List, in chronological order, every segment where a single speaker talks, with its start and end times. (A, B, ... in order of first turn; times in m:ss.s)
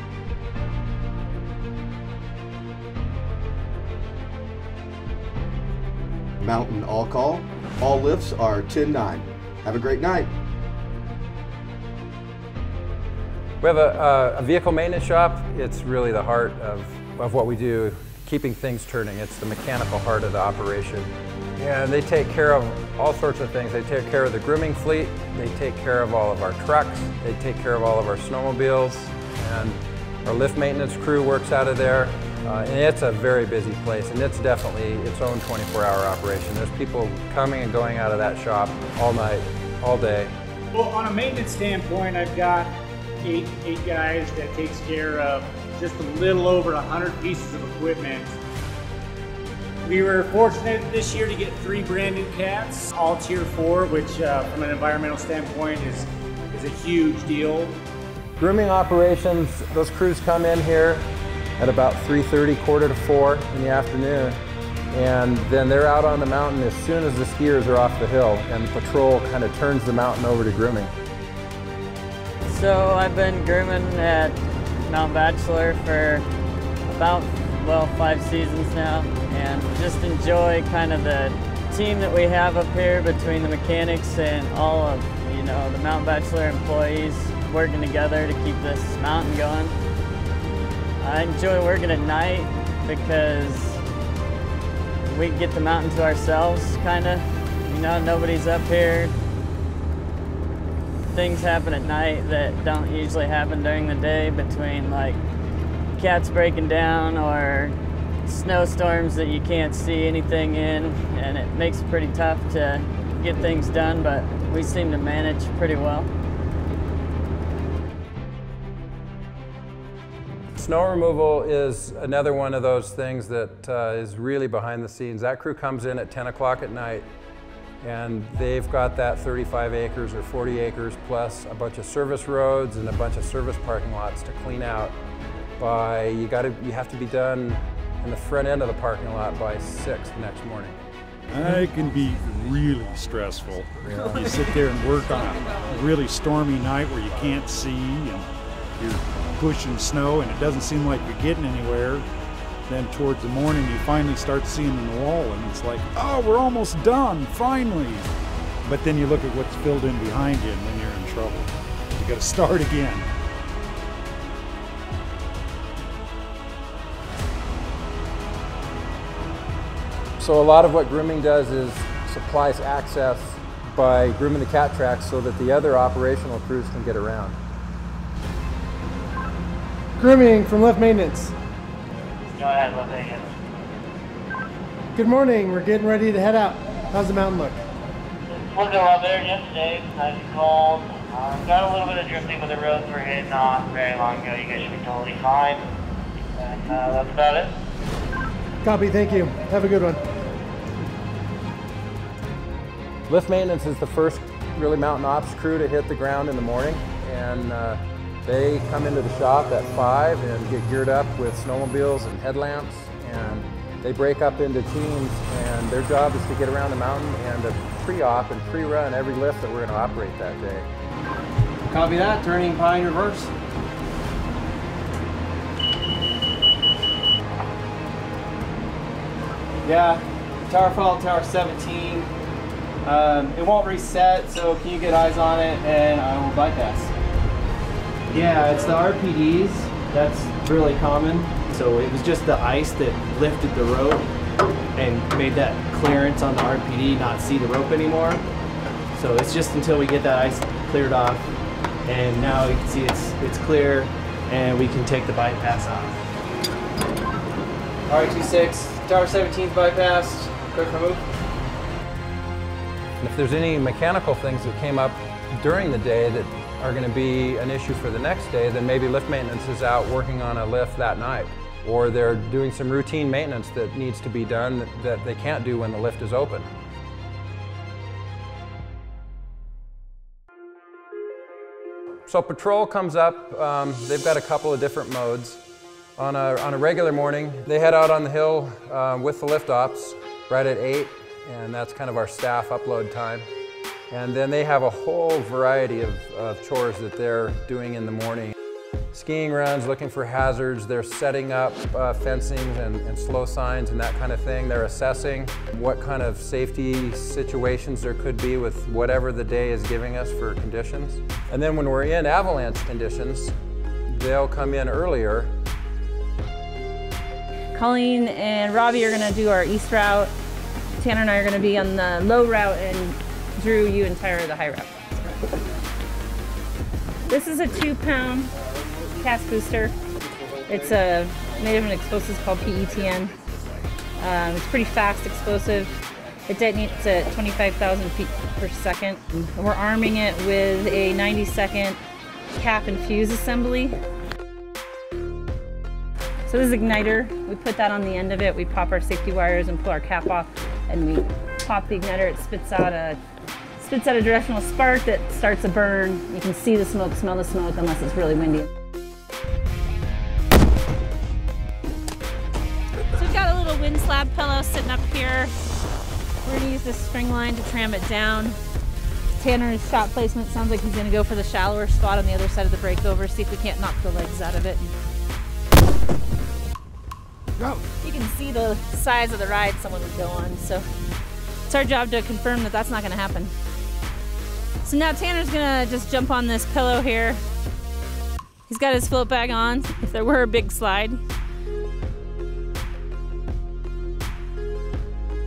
0:06.4-0:10.3 A
0:13.6-0:40.3 B
0:40.7-0:42.7 C
0:43.2-0:48.3 C
0:49.8-0:57.7 C
0:58.4-1:04.4 B
1:04.9-1:10.9 B
1:12.5-1:16.2 D
1:16.9-1:29.7 D
1:31.0-1:33.8 D
1:35.1-1:39.1 D
1:41.1-1:45.2 D
1:46.0-1:56.1 D
2:00.6-2:07.0 B
2:07.8-2:15.0 B
2:15.6-2:20.8 B
2:21.3-2:32.0 E
2:32.7-2:38.1 E
2:38.6-2:43.0 E
2:50.2-2:57.4 B
3:00.0-3:01.3 F
3:02.3-3:03.3 G
3:04.9-3:07.6 F
3:08.3-3:15.6 G
3:16.4-3:17.5 G
3:18.6-3:20.0 F
3:23.1-3:40.7 B
3:49.6-3:50.0 H
3:50.6-3:51.2 H
3:52.8-3:53.8 H
3:58.1-4:03.8 H
4:04.8-4:06.2 H
4:08.9-4:11.3 H
4:11.8-4:16.0 H
4:23.0-4:36.5 B
4:42.1-4:45.4 B
4:46.0-4:53.3 B
4:53.9-4:58.3 B
4:58.9-5:13.4 B
5:13.9-5:15.3 B
5:17.5-5:20.1 I
5:20.8-5:24.7 I
5:27.1-5:28.3 I
5:29.0-5:29.8 I
5:30.5-5:33.2 I
5:34.0-5:35.7 I
5:36.3-5:41.8 I
5:42.4-5:43.8 I
5:46.3-5:53.0 I
5:53.6-5:58.5 I
6:02.9-6:05.3 I
6:06.2-6:08.4 I
6:09.2-6:14.7 I
6:17.4-6:20.7 I
6:21.5-6:23.3 I
6:24.6-6:27.2 I
6:28.5-6:31.0 I